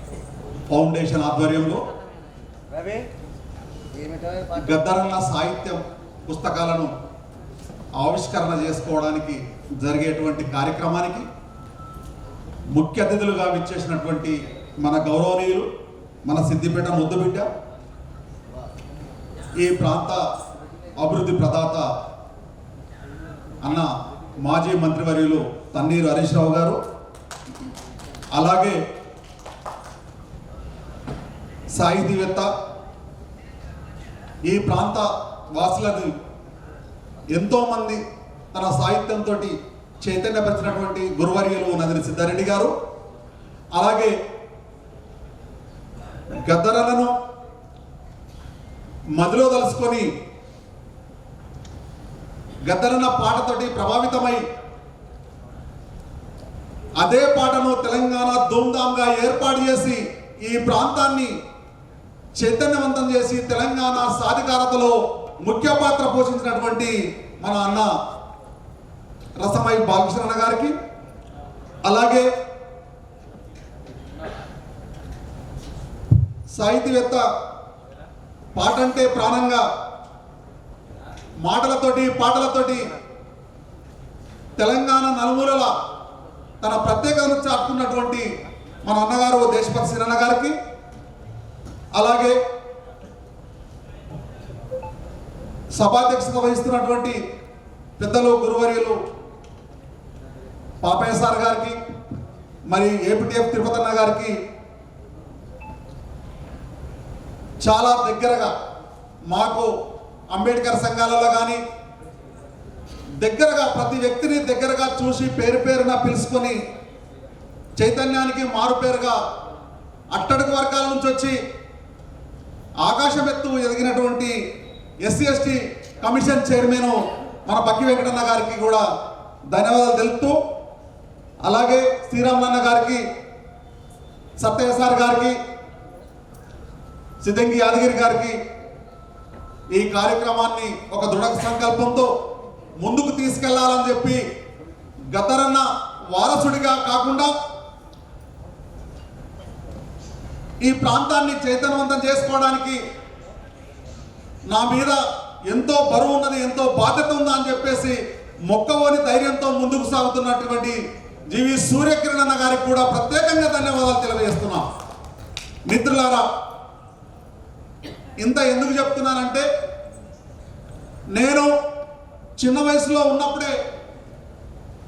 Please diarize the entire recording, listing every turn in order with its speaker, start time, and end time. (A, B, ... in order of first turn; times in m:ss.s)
0:00.7-0:01.8 A
0:04.5-0:06.9 A
0:08.0-0:11.2 A
0:12.7-0:15.7 A
0:16.2-0:17.5 A
0:19.6-0:20.2 A
0:21.0-0:21.9 A
0:23.6-0:23.9 A
0:24.4-0:26.8 A
0:28.3-0:28.8 A
0:31.7-0:32.5 A
0:34.4-0:36.1 A
0:37.3-0:42.7 A
0:43.7-0:44.1 A
0:46.4-0:47.1 A
0:49.2-0:50.1 A
0:52.6-0:54.4 A
0:57.0-1:01.3 A
1:02.4-1:07.9 A
1:09.4-1:10.7 A
1:11.8-1:12.3 A
1:16.5-1:17.2 A
1:18.5-1:19.6 A
1:21.4-1:22.9 A
1:24.6-1:25.7 A
1:26.6-1:28.2 A
1:28.8-1:30.5 A
1:31.9-1:32.4 A
1:35.8-1:37.2 A
1:38.0-1:39.0 A
1:40.8-1:41.8 A
1:42.7-1:44.4 A
1:47.6-1:48.5 A
1:49.3-1:49.7 A
1:50.3-1:51.6 A
1:53.2-1:56.6 A
1:57.8-1:59.2 A
2:00.1-2:01.3 A
2:02.8-2:04.4 A
2:05.0-2:08.8 A
2:09.5-2:10.4 A
2:11.4-2:13.0 A
2:14.4-2:15.3 A
2:17.2-2:18.4 A
2:19.7-2:22.1 A
2:22.8-2:24.2 A
2:25.1-2:27.3 A
2:30.6-2:32.8 A
2:34.5-2:40.8 A
2:41.3-2:44.6 A
2:45.7-2:46.2 A
2:48.2-2:49.4 A
2:51.1-2:51.5 A
2:52.4-2:53.5 A